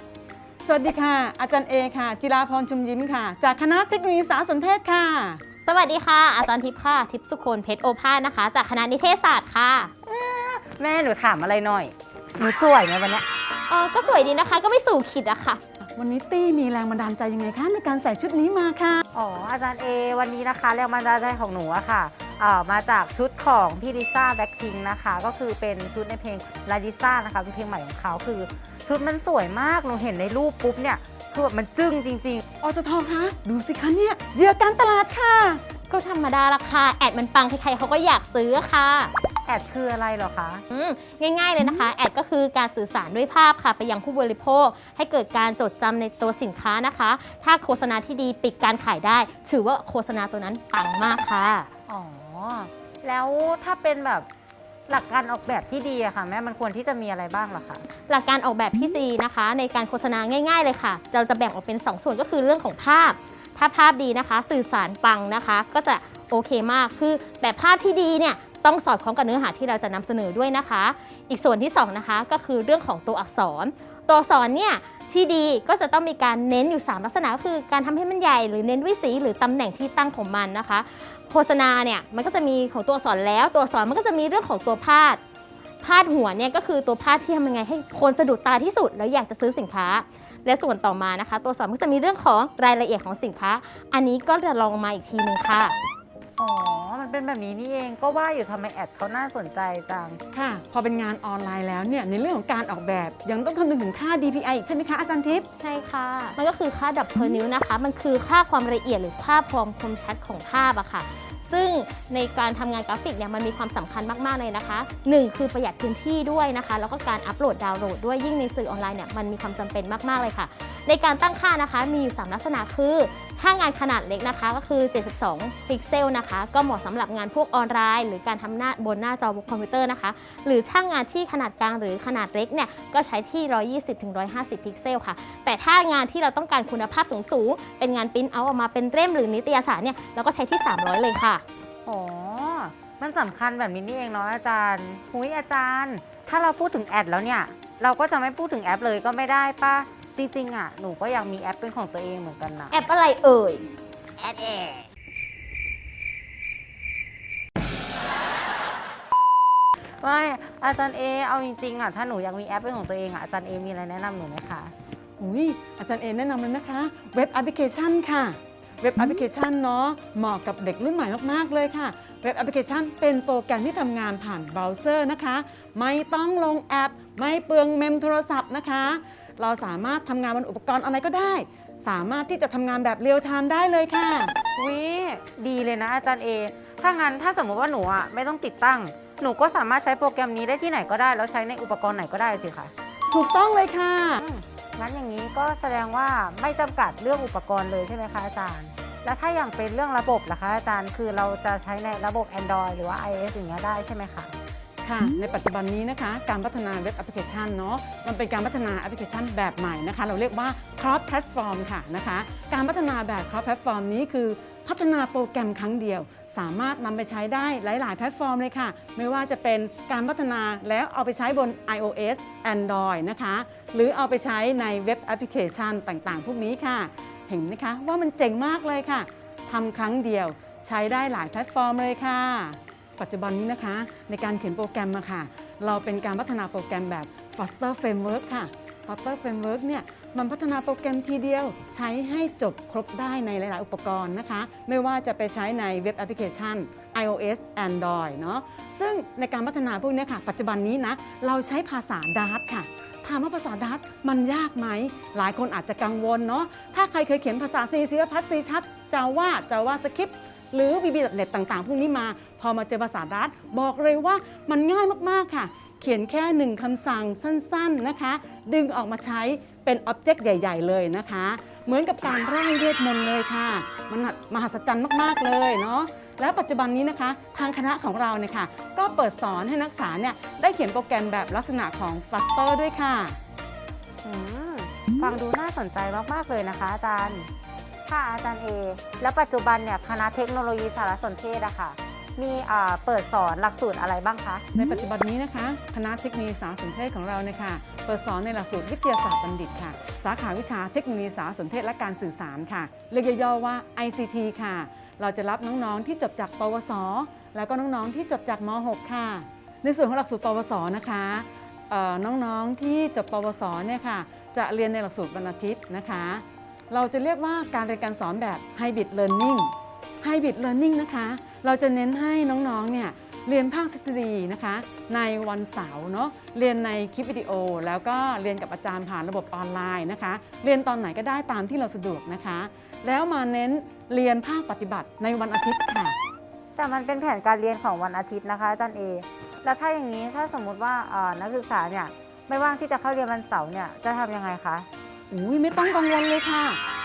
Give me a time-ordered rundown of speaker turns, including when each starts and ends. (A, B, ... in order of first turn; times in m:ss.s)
0:00.6-0:05.4 A
0:05.7-0:09.9 B
0:10.0-0:13.3 C
0:13.7-0:15.6 B
0:16.0-0:19.0 A
0:19.2-0:32.4 C
0:32.6-0:35.6 A
0:35.9-0:39.1 B
0:39.5-0:40.6 C
0:40.7-0:51.7 B
0:51.9-0:54.3 C
0:54.9-0:57.8 C
0:58.1-1:25.2 B
1:25.8-1:35.8 B
1:36.4-1:40.2 C
1:40.3-1:45.5 A
1:45.6-2:21.4 B
2:21.8-2:32.8 C
2:32.7-2:34.8 B
2:40.0-2:44.7 C
2:45.2-3:04.3 A
3:04.6-3:12.7 C
3:13.1-3:14.2 A
3:14.2-3:24.3 C
3:24.8-4:43.2 A
4:44.0-4:47.3 C
4:47.9-4:54.5 C
4:54.6-5:36.0 A
5:36.6-5:44.7 C
5:45.1-5:46.6 A